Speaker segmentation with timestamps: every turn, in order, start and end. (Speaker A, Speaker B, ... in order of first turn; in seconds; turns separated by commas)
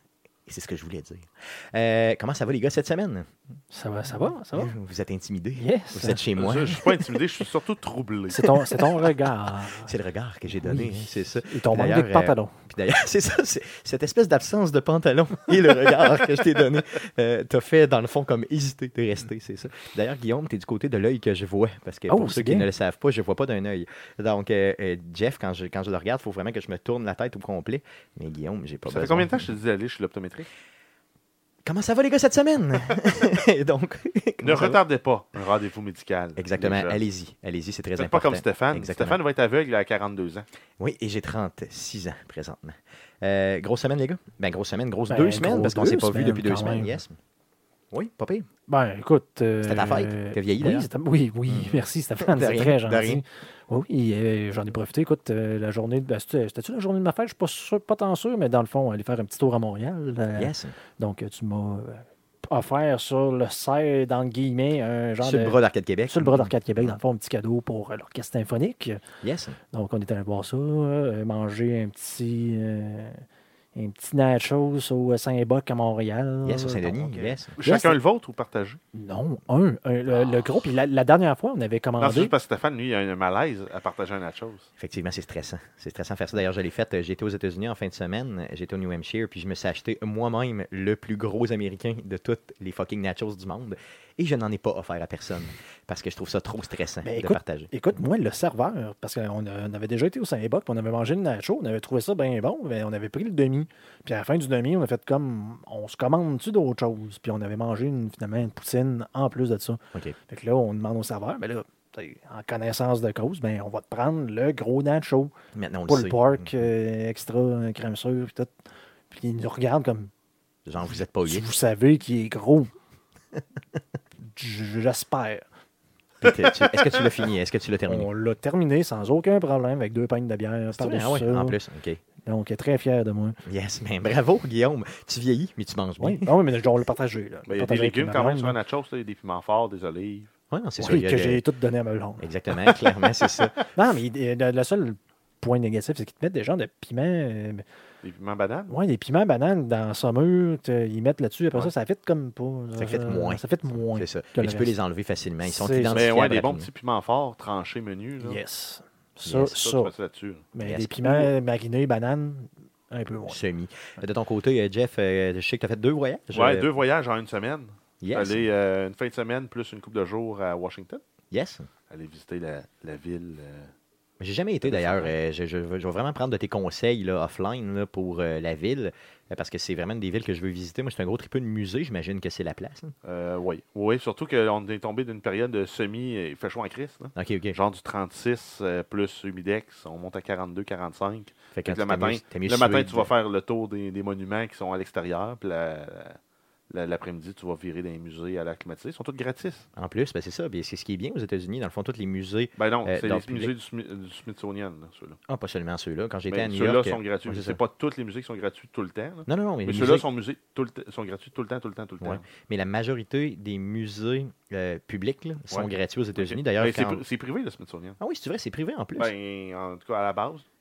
Speaker A: 0.5-3.3, Speaker B: 3.7-4.7, Speaker A: 4.2-6.9, Speaker B: 5.5-6.2, Speaker C: 6.3-8.9, Speaker B: 6.7-7.0, Speaker B: 8.3-9.9, Speaker A: 9.7-29.5, Speaker B: 10.6-12.5, Speaker B: 22.1-22.7, Speaker C: 28.9-30.5, Speaker A: 31.6-34.8, Speaker C: 34.4-37.0, Speaker A: 36.4-39.2, Speaker C: 38.0-40.5, Speaker A: 40.8-47.2, Speaker B: 45.1-47.0, Speaker A: 47.9-48.5, Speaker B: 48.7-69.0, Speaker A: 49.6-50.9, Speaker A: 51.5-53.2, Speaker A: 60.4-60.8, Speaker A: 65.2-67.0, Speaker A: 69.2-69.6, Speaker B: 69.7-78.0, Speaker A: 76.4-77.6, Speaker C: 77.6-78.8, Speaker B: 78.9-82.3, Speaker C: 82.0-84.7, Speaker A: 84.8-97.7, Speaker B: 97.0-115.3, Speaker A: 115.5-116.5, Speaker B: 115.9-118.5, Speaker B: 119.1-120.1, Speaker A: 120.7-121.5, Speaker B: 121.2-122.7, Speaker B: 124.2-125.4, Speaker A: 126.2-128.1, Speaker B: 127.9-131.6, Speaker A: 130.7-132.0, Speaker B: 132.2-133.4, Speaker A: 133.4-136.3, Speaker B: 136.0-138.6, Speaker C: 137.5-140.3, Speaker A: 140.5-141.4, Speaker B: 140.8-142.2, Speaker A: 142.2-143.6, Speaker C: 142.6-143.6, Speaker B: 143.7-147.6, Speaker C: 148.0-148.8, Speaker B: 148.7-154.8, Speaker A: 152.8-156.7, Speaker B: 155.4-156.1, Speaker C: 155.9-158.4, Speaker B: 158.2-159.9, Speaker C: 159.4-160.5, Speaker B: 160.5-163.4, Speaker A: 160.6-161.3, Speaker A: 163.3-166.7, Speaker C: 166.3-171.0, Speaker A: 168.0-168.5, Speaker A: 171.3-171.7, Speaker C: 171.9-173.7, Speaker A: 174.2-182.9, Speaker C: 174.6-175.1, Speaker C: 183.0-196.2, Speaker A: 187.2-187.6, Speaker A: 191.5-193.1, Speaker C: 196.7-199.7, Speaker A: 199.8-203.5, Speaker C: 202.6-205.2, Speaker A: 205.3-207.6, Speaker C: 206.3-212.2, Speaker A: 209.3-210.0, Speaker A: 212.0-217.0, Speaker C: 215.5-218.0, Speaker A: 218.0-219.1, Speaker C: 219.0-220.5